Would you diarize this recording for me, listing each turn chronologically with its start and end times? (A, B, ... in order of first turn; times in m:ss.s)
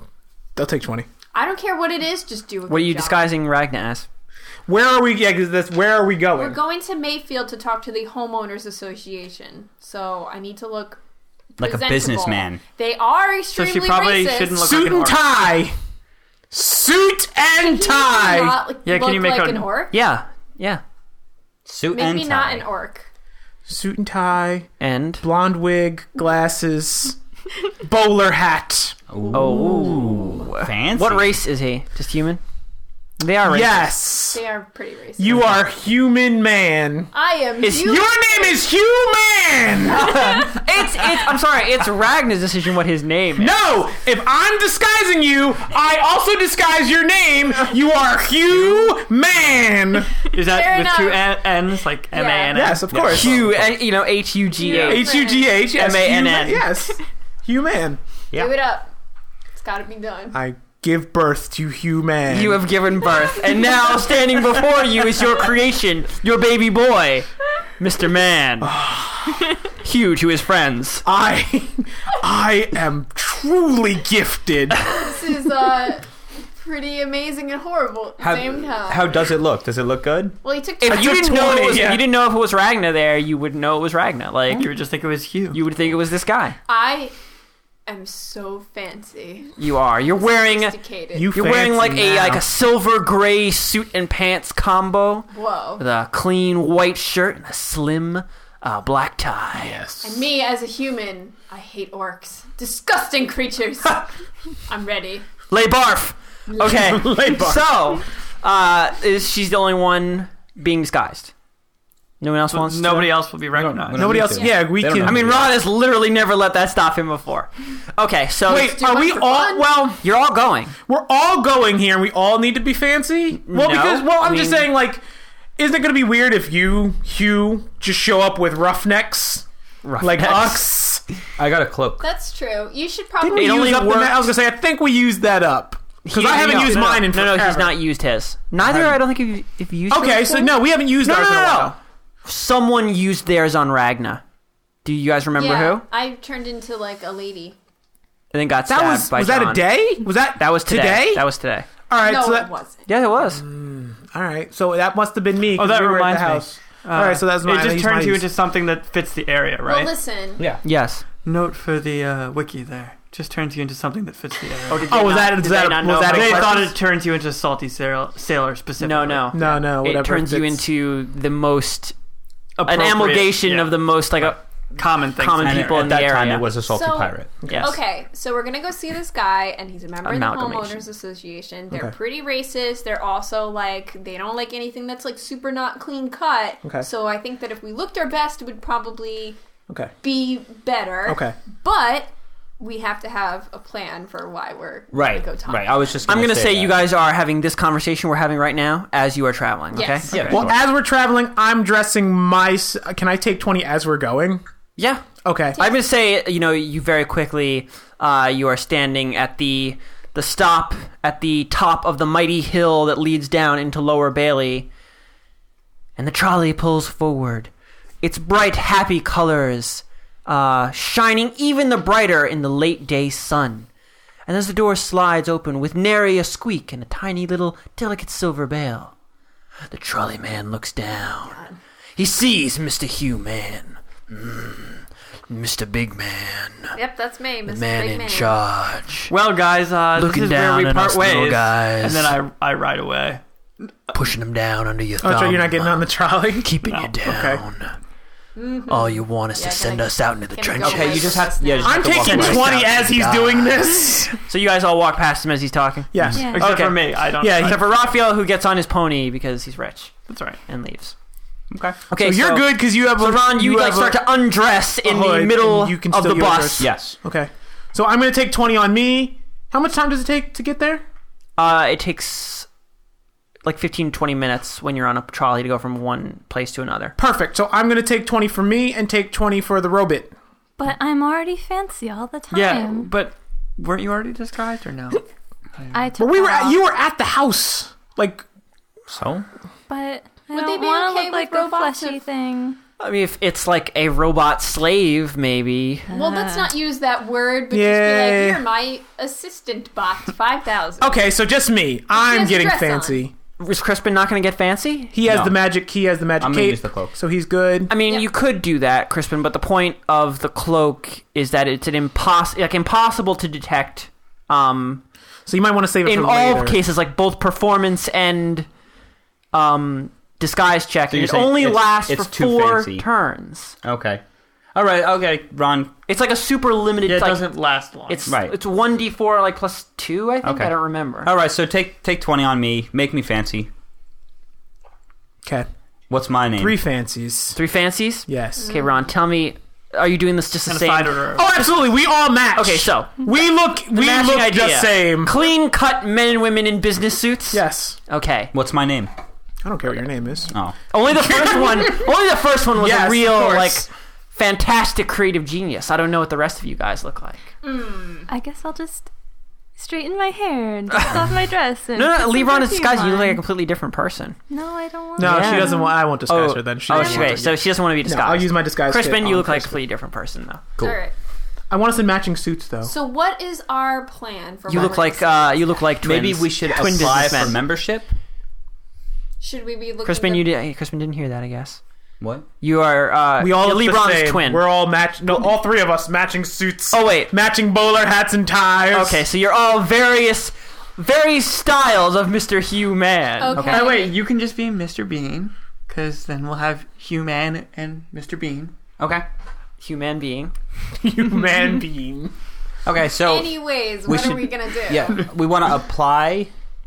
0:00.6-0:01.1 A
0:01.3-0:03.3 B
0:02.7-0:04.0 C
0:04.7-0:06.6 A
0:06.3-0:11.0 B
0:11.6-0:14.6 B
0:11.6-0:12.6 D
0:13.5-0:15.2 E
0:14.6-0:15.7 A
0:16.5-0:18.6 A
0:17.6-0:19.9 B
0:18.8-0:19.7 E
0:19.9-0:20.8 C
0:21.7-0:22.6 D
0:21.9-0:23.1 B
0:23.7-0:24.7 A
0:24.8-0:25.2 C
0:25.2-0:27.2 A
0:27.8-0:29.0 A
0:29.1-0:31.4 D
0:29.3-0:32.4 C
0:33.2-0:33.9 C
0:33.4-0:34.4 A
0:34.3-0:35.4 B
0:35.2-0:37.1 A
0:37.1-0:38.6 B
0:37.6-0:38.0 C
0:37.7-0:40.6 A
0:40.1-0:43.6 C
0:43.4-0:50.2 A
0:50.3-0:53.0 E
0:50.4-0:51.5 B
0:52.1-0:52.7 B
0:52.5-0:53.5 A
0:52.9-0:53.8 D
0:53.0-0:56.7 C
0:54.6-0:55.6 B
0:54.8-0:58.0 A
0:58.3-0:58.9 B
0:59.5-1:00.4 B
1:00.3-1:02.6 A
1:02.3-1:07.3 C
1:07.8-1:08.7 C
1:08.6-1:09.5 A
1:09.8-1:11.0 C
1:11.0-1:14.9 A
1:14.8-1:19.3 B
1:18.2-1:20.4 D
1:20.4-1:21.3 B
1:20.8-1:24.7 C
1:20.8-1:22.0 A
1:24.5-1:25.6 E
1:25.5-1:26.6 C
1:26.7-1:27.1 B
1:27.9-1:31.4 B
1:29.6-1:30.8 C
1:31.1-1:32.4 A
1:31.3-1:39.8 C
1:35.3-1:35.8 B
1:39.6-1:40.2 A
1:40.0-1:44.1 B
1:44.7-1:45.2 B
1:45.5-1:51.3 C
1:46.5-1:47.7 A
1:52.2-1:53.1 C
1:52.5-1:54.3 E
1:53.5-1:55.6 D
1:54.0-1:55.4 A
1:54.3-1:54.7 B
1:55.0-1:58.8 C
1:58.5-2:00.0 A
1:58.6-1:59.8 B
2:00.0-2:00.8 C
2:00.9-2:05.0 A
2:03.4-2:04.7 C
2:05.6-2:09.4 A
2:09.8-2:10.8 C
2:10.0-2:11.0 A
2:11.4-2:12.0 D
2:12.0-2:13.7 B
2:13.2-2:17.8 A
2:13.3-2:14.3 C
2:16.0-2:24.2 C
2:16.6-2:16.9 E
2:19.9-2:21.8 A
2:24.8-2:25.8 C
2:25.3-2:27.6 B
2:28.3-2:29.7 C
2:28.7-2:31.3 A
2:30.4-2:31.7 C
2:31.9-2:32.5 A
2:32.0-2:32.9 B
2:32.9-2:33.4 C
2:33.2-2:38.2 A
2:35.5-2:40.0 E
2:39.6-2:40.4 B
2:40.6-2:41.0 C
2:41.2-2:44.9 E
2:44.7-2:46.7 C
2:44.9-2:46.7 A
2:46.1-2:49.5 E
2:48.8-2:51.9 C
2:49.3-2:50.6 A
2:52.6-2:55.8 E
2:52.6-2:54.4 C
2:55.0-2:56.5 C
2:55.4-2:57.3 D
2:56.6-3:09.4 B
2:57.5-2:57.8 C
3:00.0-3:00.8 C
3:10.0-3:16.0 B
3:11.0-3:11.4 A
3:14.9-3:16.9 D
3:16.1-3:20.4 C
3:19.7-3:20.3 B
3:20.1-3:20.6 D
3:20.1-3:24.4 A
3:24.8-3:25.0 C
3:25.2-3:25.6 A
3:25.6-3:34.7 C
3:36.0-3:37.5 C
3:38.0-3:43.7 C
3:44.3-3:48.9 C
3:49.7-3:51.4 C
3:51.2-3:51.6 B
3:52.0-3:56.8 C
3:56.7-3:58.4 B
3:57.4-3:59.1 C
3:59.1-4:03.2 E
4:00.0-4:02.2 C
4:03.9-4:05.8 C
4:05.0-4:06.5 A
4:06.4-4:07.8 C
4:06.6-4:06.9 E
4:07.0-4:07.4 A
4:08.4-4:12.1 B
4:08.7-4:11.2 C
4:10.6-4:13.6 D
4:11.6-4:14.2 A
4:12.0-4:12.7 C
4:14.3-4:19.9 C
4:15.9-4:16.4 A
4:16.1-4:16.5 F
4:16.3-4:17.6 E
4:17.2-4:17.6 A
4:20.1-4:20.4 E
4:20.4-4:20.9 C
4:21.5-4:21.8 D
4:21.9-4:26.7 C
4:22.0-4:24.0 A
4:24.8-4:30.8 A
4:26.6-4:27.0 D
4:31.4-4:32.5 C
4:33.4-4:37.0 C
4:37.0-4:40.1 A
4:40.6-4:42.9 F
4:42.3-4:45.0 E
4:45.5-4:45.8 E
4:45.7-4:46.6 F
4:46.0-4:48.2 A
4:48.9-4:49.2 D
4:49.7-4:52.6 F
4:50.3-4:52.0 B
4:52.8-4:55.9 C
4:55.9-4:56.5 F
4:55.9-5:01.1 B
4:57.5-4:58.4 A
5:00.8-5:03.1 A
5:01.9-5:03.1 B
5:03.4-5:05.0 C
5:04.9-5:07.7 A
5:05.0-5:05.5 D
5:06.2-5:07.0 D
5:07.7-5:14.8 C
5:15.2-5:16.6 A
5:15.8-5:18.5 C
5:19.3-5:23.6 C
5:20.9-5:22.8 D
5:23.6-5:24.0 D
5:24.5-5:25.7 D
5:25.9-5:27.2 C
5:26.9-5:28.1 E
5:27.9-5:31.1 C
5:28.1-5:28.4 D
5:30.2-5:33.5 D
5:35.9-5:36.6 D
5:36.4-5:37.4 A
5:37.3-5:41.6 C
5:38.1-5:38.5 A
5:38.4-5:38.7 B
5:40.5-5:41.4 E
5:41.2-5:45.1 A
5:42.3-5:43.0 C
5:43.6-5:48.3 C
5:47.3-5:47.8 A
5:48.3-5:48.9 D
5:49.4-5:50.3 A
5:50.3-5:50.6 D
5:50.7-5:57.3 C
5:50.9-5:51.9 A
5:52.6-5:53.7 A
5:57.4-5:58.1 B
5:58.1-5:58.9 F
5:59.6-6:03.2 F
6:01.7-6:04.2 C
6:04.3-6:05.8 F
6:05.0-6:10.4 C
6:05.0-6:09.6 A
6:06.7-6:07.1 F
6:10.6-6:10.9 B
6:11.5-6:12.7 A
6:12.6-6:15.6 B
6:14.5-6:17.4 C
6:15.8-6:17.9 D
6:19.2-6:20.2 B
6:19.8-6:21.6 C
6:22.0-6:22.2 D
6:22.4-6:24.4 C
6:23.2-6:29.0 A
6:26.7-6:27.1 C
6:28.7-6:33.6 C
6:33.2-6:34.0 B
6:33.3-6:33.6 D
6:33.4-6:38.5 E
6:38.8-6:39.0 D
6:39.6-6:40.3 C
6:40.8-6:42.1 A
6:42.6-6:46.3 D
6:43.0-6:45.1 B